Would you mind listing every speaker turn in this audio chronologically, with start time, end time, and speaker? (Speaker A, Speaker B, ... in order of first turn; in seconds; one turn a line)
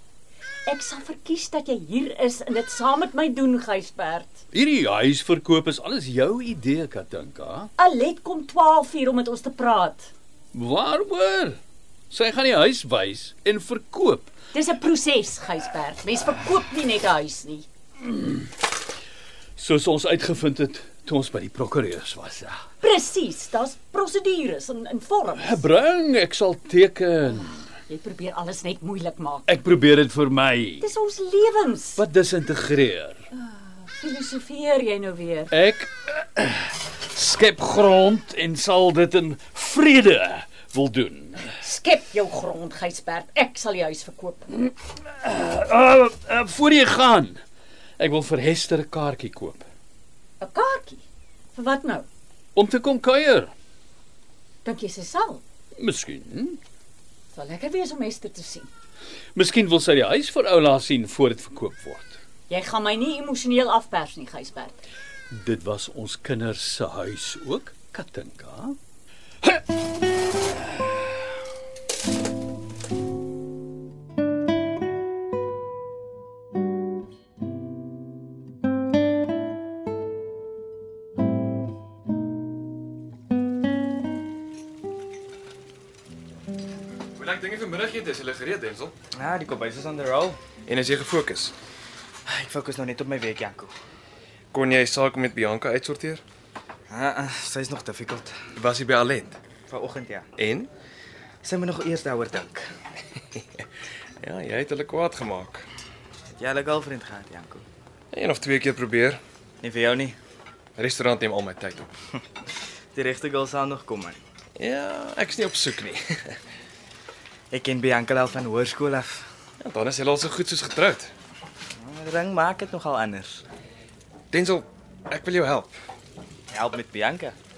Speaker A: 0.7-4.5
Speaker B: 4.5-7.7
Speaker A: 7.8-10.1
Speaker B: 10.5-11.6
Speaker B: 12.1-14.3
Speaker A: 14.5-17.7
Speaker B: 18.0-18.5
Speaker B: 19.6-22.6
Speaker A: 22.8-25.6
Speaker B: 25.4-27.7
Speaker A: 27.9-29.5
Speaker B: 29.5-30.8
Speaker A: 30.8-32.0
Speaker B: 31.9-33.2
Speaker A: 33.3-35.5
Speaker B: 35.5-41.5
Speaker A: 41.6-44.5
Speaker B: 44.6-47.4
Speaker B: 48.0-49.6
Speaker A: 50.4-52.1
Speaker B: 52.5-53.5
Speaker A: 54.6-55.4
Speaker B: 55.7-56.6
Speaker A: 57.3-58.7
Speaker B: 59.3-62.2
Speaker A: 62.5-64.8
Speaker B: 65.3-68.8
Speaker C: 87.1-89.0
Speaker D: 89.2-90.4
Speaker C: 90.7-91.5
Speaker D: 92.2-93.7
Speaker C: 94.5-96.2
Speaker D: 96.9-98.3
Speaker C: 98.5-99.4
Speaker D: 99.7-100.3
Speaker C: 100.4-100.7
Speaker D: 101.4-102.7
Speaker C: 103.3-103.6
Speaker C: 104.2-105.7
Speaker D: 106.3-107.7
Speaker C: 108.1-109.2
Speaker D: 109.6-110.2
Speaker C: 110.8-111.9
Speaker D: 112.9-114.2
Speaker C: 114.6-116.4
Speaker D: 117.5-119.3
Speaker C: 119.6-121.1
Speaker D: 121.8-123.4
Speaker C: 124.3-125.7
Speaker D: 126.5-127.3